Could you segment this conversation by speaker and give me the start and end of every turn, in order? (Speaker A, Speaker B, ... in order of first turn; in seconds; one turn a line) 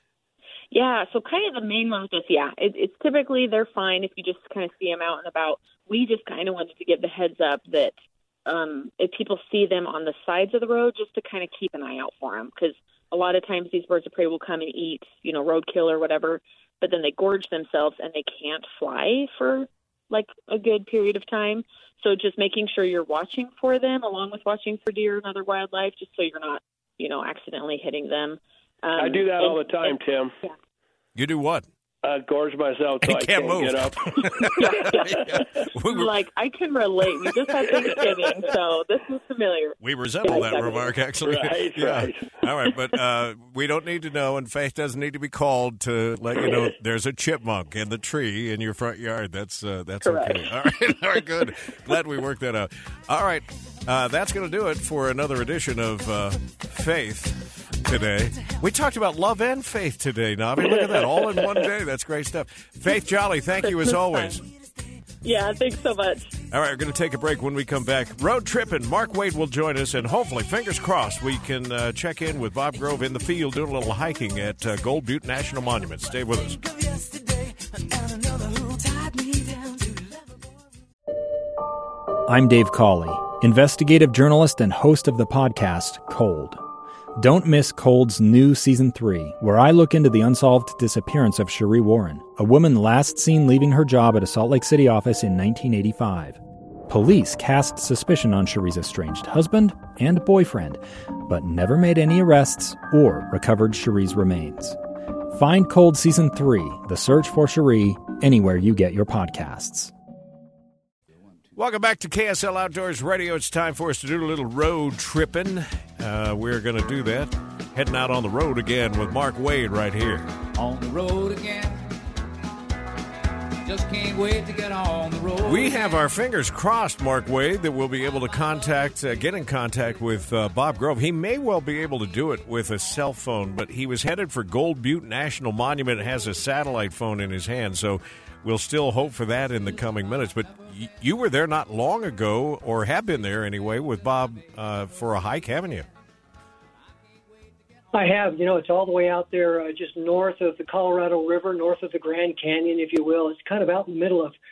Speaker A: 0.7-30.6
Speaker B: 29.0-30.3
Speaker C: 31.1-31.7
Speaker B: 32.0-34.9
Speaker C: 33.0-36.1
Speaker A: 34.5-35.3
Speaker A: 35.9-40.9
Speaker C: 39.8-64.4
Speaker B: 41.2-42.4
Speaker A: 50.0-50.4
Speaker B: 60.6-61.5
Speaker A: 63.6-64.4
Speaker A: 65.2-66.3
Speaker C: 66.5-76.6
Speaker D: 82.3-86.6
Speaker D: 87.2-104.8
Speaker D: 105.3-109.9
Speaker C: 111.6-120.3
Speaker E: 120.6-121.9
Speaker E: 123.7-125.7
Speaker C: 125.4-145.9
Speaker F: 147.9-154.4